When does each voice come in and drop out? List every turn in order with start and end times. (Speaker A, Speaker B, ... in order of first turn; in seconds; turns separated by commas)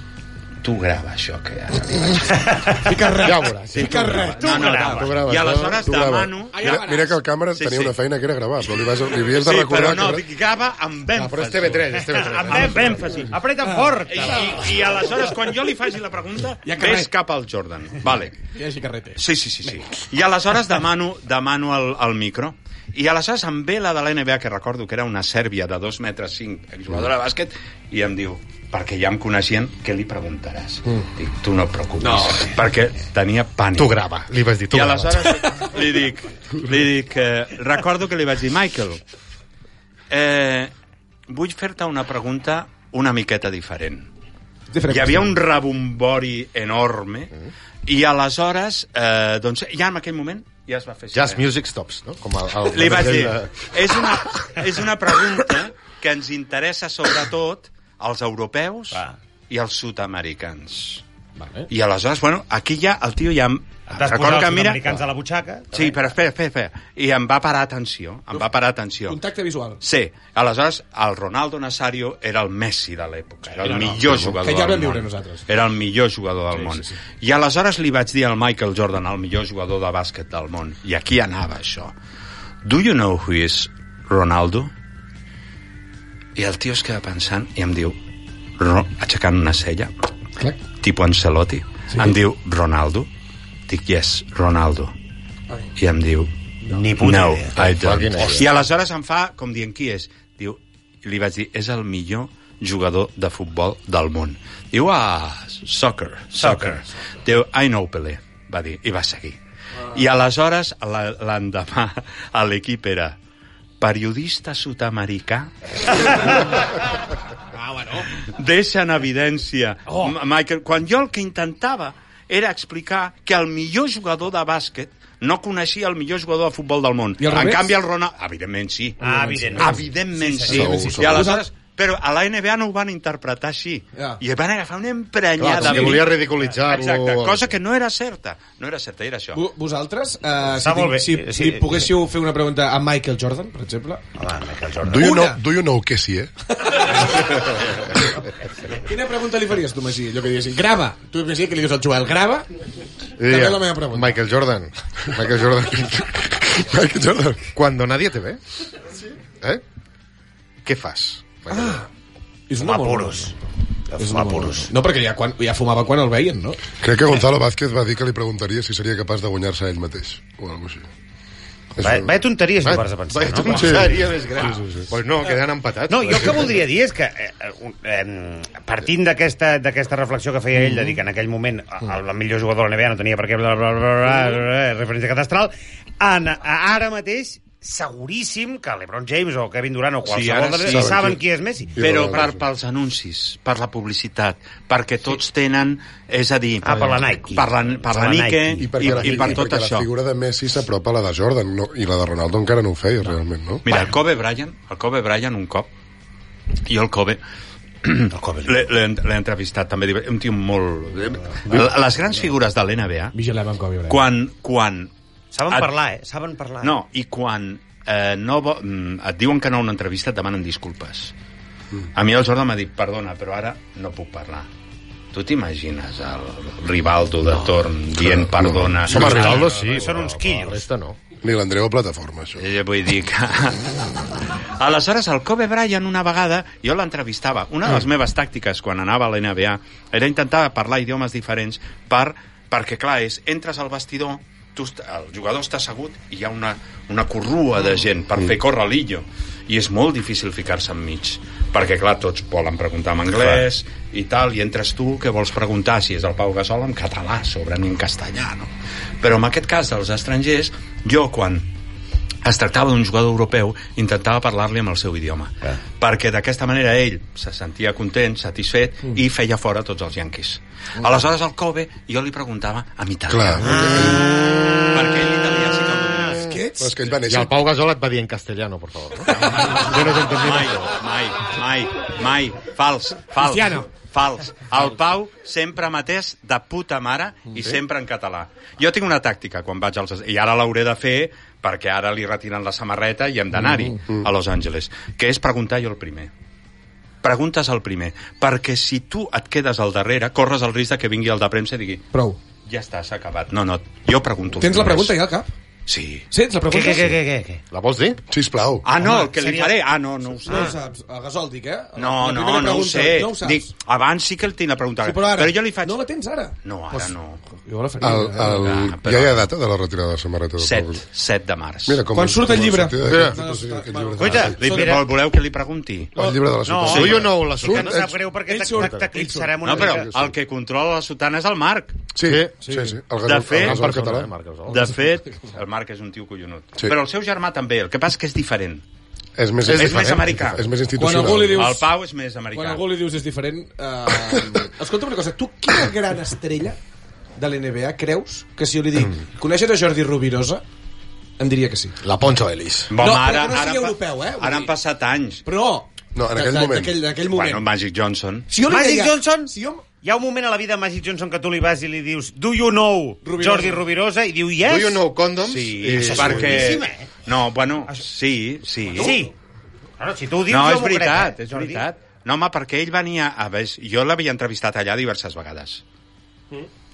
Speaker A: 0.6-2.5, Speaker B: 2.4-2.8, Speaker C: 2.8-5.1, Speaker D: 3.2-5.9, Speaker A: 3.8-6.8, Speaker B: 4.4-5.0, Speaker E: 5.8-10.2, Speaker C: 6.5-7.2, Speaker A: 7.5-8.0, Speaker A: 9.4-13.3, Speaker D: 11.1-13.1, Speaker B: 12.2-14.7, Speaker A: 14.1-18.4, Speaker C: 16.6-17.1, Speaker C: 18.5-19.2, Speaker A: 19.2-34.0, Speaker C: 32.0-32.5, Speaker D: 33.8-35.3, Speaker A: 34.7-39.0, Speaker A: 40.1-40.7, Speaker A: 41.3-44.1, Speaker C: 44.7-45.3, Speaker A: 44.9-47.3, Speaker A: 47.9-51.4, Speaker D: 51.1-53.6, Speaker A: 52.7-61.0, Speaker C: 61.4-61.7, Speaker A: 61.7-65.0, Speaker B: 63.9-66.0, Speaker A: 65.7-69.2, Speaker C: 69.1-69.8, Speaker A: 69.8-81.9, Speaker C: 73.6-75.5, Speaker C: 76.5-77.0, Speaker A: 82.6-84.7, Speaker A: 86.4-88.0, Speaker A: 88.6-89.9, Speaker A: 90.8-93.1, Speaker A: 93.7-94.9, Speaker A: 95.8-96.3, Speaker B: 96.7-97.6, Speaker A: 97.0-109.4, Speaker D: 97.6-98.5, Speaker B: 106.4-106.8, Speaker A: 109.9-113.2, Speaker A: 113.8-116.7, Speaker C: 117.5-118.1, Speaker A: 118.2-129.0, Speaker C: 119.9-120.1, Speaker C: 127.2-127.7, Speaker B: 129.0-131.1, Speaker C: 129.0-129.8, Speaker A: 129.6-139.4, Speaker E: 130.5-131.3, Speaker C: 130.7-131.5, Speaker D: 135.4-137.5, Speaker C: 135.6-136.0, Speaker C: 139.3-144.0, Speaker B: 140.6-141.9, Speaker B: 144.2-145.1, Speaker E: 144.8-146.3, Speaker C: 145.0-145.4, Speaker C: 146.6-147.1, Speaker C: 148.7-152.5, Speaker D: 153.2-156.1, Speaker C: 153.3-154.2, Speaker E: 156.2-157.5, Speaker D: 157.6-158.4, Speaker D: 160.6-161.8, Speaker C: 161.5-161.9, Speaker C: 162.5-163.3, Speaker B: 162.6-163.3, Speaker B: 163.9-164.7, Speaker C: 164.0-166.6, Speaker E: 166.8-170.9, Speaker E: 171.8-172.1, Speaker B: 171.8-174.0, Speaker D: 172.6-176.6, Speaker E: 173.4-174.9, Speaker B: 175.9-191.7, Speaker A: 190.1-191.0, Speaker E: 190.7-191.2, Speaker E: 191.8-192.4, Speaker A: 191.8-199.9, Speaker B: 196.6-199.3, Speaker E: 198.6-203.6, Speaker A: 203.7-205.7, Speaker A: 206.7-207.2, Speaker A: 207.8-213.1, Speaker B: 208.1-208.7, Speaker C: 213.1-214.0, Speaker A: 213.9-214.9, Speaker B: 215.3-216.7, Speaker A: 216.6-221.1, Speaker A: 221.9-224.5, Speaker A: 225.1-229.6, Speaker E: 228.0-229.5, Speaker D: 228.9-231.0, Speaker B: 229.0-230.6, Speaker E: 231.2-232.4, Speaker A: 232.4-233.8, Speaker A: 234.6-258.5, Speaker A: 259.0-261.5, Speaker A: 262.2-274.1, Speaker E: 273.1-274.1, Speaker B: 273.4-274.3, Speaker D: 274.3-275.2, Speaker A: 274.7-276.3, Speaker B: 275.8-276.1, Speaker C: 276.2-276.8, Speaker E: 276.6-277.4, Speaker D: 277.1-280.7, Speaker C: 279.3-279.6, Speaker A: 279.3-296.1, Speaker C: 283.2-283.7, Speaker A: 297.0-301.9, Speaker C: 301.9-302.2, Speaker A: 302.5-305.0, Speaker C: 304.4-305.3, Speaker A: 305.7-306.1, Speaker C: 306.1-307.0, Speaker B: 306.5-307.4, Speaker D: 307.5-308.0, Speaker E: 308.1-308.7, Speaker A: 308.6-310.6, Speaker B: 308.8-309.6, Speaker B: 310.3-310.6, Speaker C: 310.3-313.5, Speaker A: 311.8-315.8, Speaker C: 314.8-316.3, Speaker A: 316.4-317.2, Speaker C: 317.4-318.4, Speaker E: 317.8-320.8, Speaker A: 318.3-319.3, Speaker A: 320.4-321.8, Speaker E: 321.7-324.7, Speaker C: 321.9-324.8, Speaker D: 322.9-323.1, Speaker B: 324.0-324.8, Speaker A: 324.4-326.0, Speaker E: 326.0-327.9, Speaker B: 326.4-326.9, Speaker D: 326.6-328.0, Speaker A: 326.7-327.1, Speaker B: 327.4-329.9, Speaker C: 328.3-329.6, Speaker A: 329.4-331.8, Speaker E: 329.6-330.1, Speaker E: 331.9-334.1, Speaker D: 332.0-332.3, Speaker C: 332.4-332.8, Speaker A: 333.0-333.7, Speaker D: 333.3-334.6, Speaker A: 334.5-338.6, Speaker E: 339.2-341.6, Speaker D: 339.4-340.0, Speaker A: 339.5-340.4, Speaker C: 340.8-341.7, Speaker A: 341.3-342.7, Speaker C: 342.3-346.6, Speaker C: 347.2-350.4, Speaker C: 351.2-351.8, Speaker D: 351.8-352.7, Speaker A: 352.7-355.2, Speaker C: 352.8-354.5, Speaker C: 355.2-357.4, Speaker E: 355.9-356.8, Speaker A: 357.1-358.3, Speaker C: 358.3-359.6, Speaker B: 358.4-364.8, Speaker C: 363.0-363.6, Speaker D: 364.4-366.5, Speaker A: 365.2-369.0, Speaker B: 365.7-366.9, Speaker B: 368.8-369.1, Speaker B: 369.8-371.6, Speaker A: 370.3-375.6